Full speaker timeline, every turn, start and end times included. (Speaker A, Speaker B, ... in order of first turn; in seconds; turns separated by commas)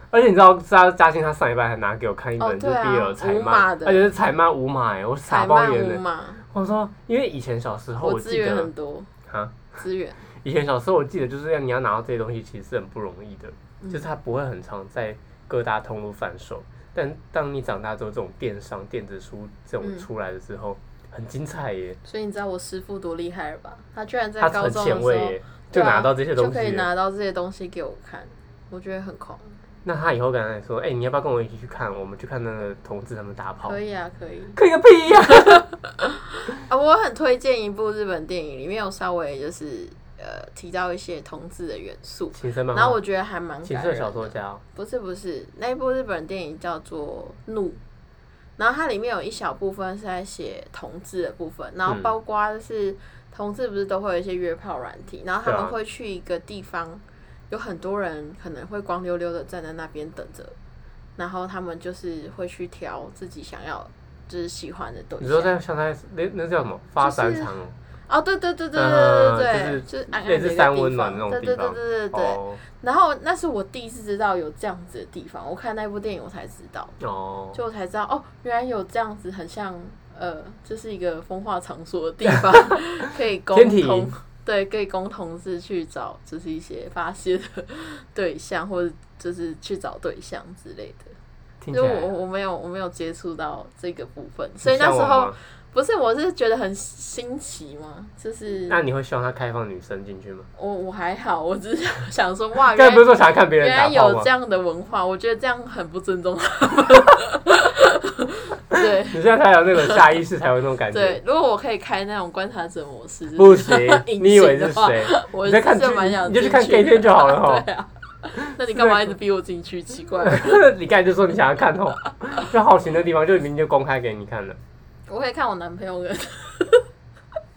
Speaker A: 0.1-8.7, Speaker B: 2.4-4.1, Speaker B: 5.3-6.4, Speaker B: 8.0-9.1, Speaker A: 9.3-9.7, Speaker B: 9.8-10.2, Speaker A: 10.4-22.0, Speaker B: 19.8-20.1, Speaker B: 22.0-29.6, Speaker A: 24.4-26.9, Speaker A: 29.9-33.8, Speaker B: 33.6-34.6, Speaker A: 34.5-35.7, Speaker B: 35.2-47.8, Speaker A: 42.3-43.0, Speaker A: 43.6-44.6, Speaker B: 48.6-60.5, Speaker A: 55.5-55.8, Speaker B: 61.2-65.5, Speaker A: 65.2-67.7, Speaker B: 67.0-67.5, Speaker B: 68.1-77.0, Speaker A: 68.8-72.6, Speaker A: 77.0-77.6, Speaker B: 77.5-91.1, Speaker A: 82.5-82.8, Speaker A: 83.5-84.1, Speaker A: 91.6-92.1, Speaker B: 91.7-98.8, Speaker A: 94.6-95.4, Speaker A: 98.7-100.5, Speaker B: 100.6-109.2, Speaker A: 102.7-104.3, Speaker A: 109.1-111.2, Speaker B: 109.8-110.0, Speaker B: 110.9-120.7, Speaker A: 113.4-117.7, Speaker A: 118.6-119.1, Speaker A: 120.2-124.6, Speaker B: 125.1-126.9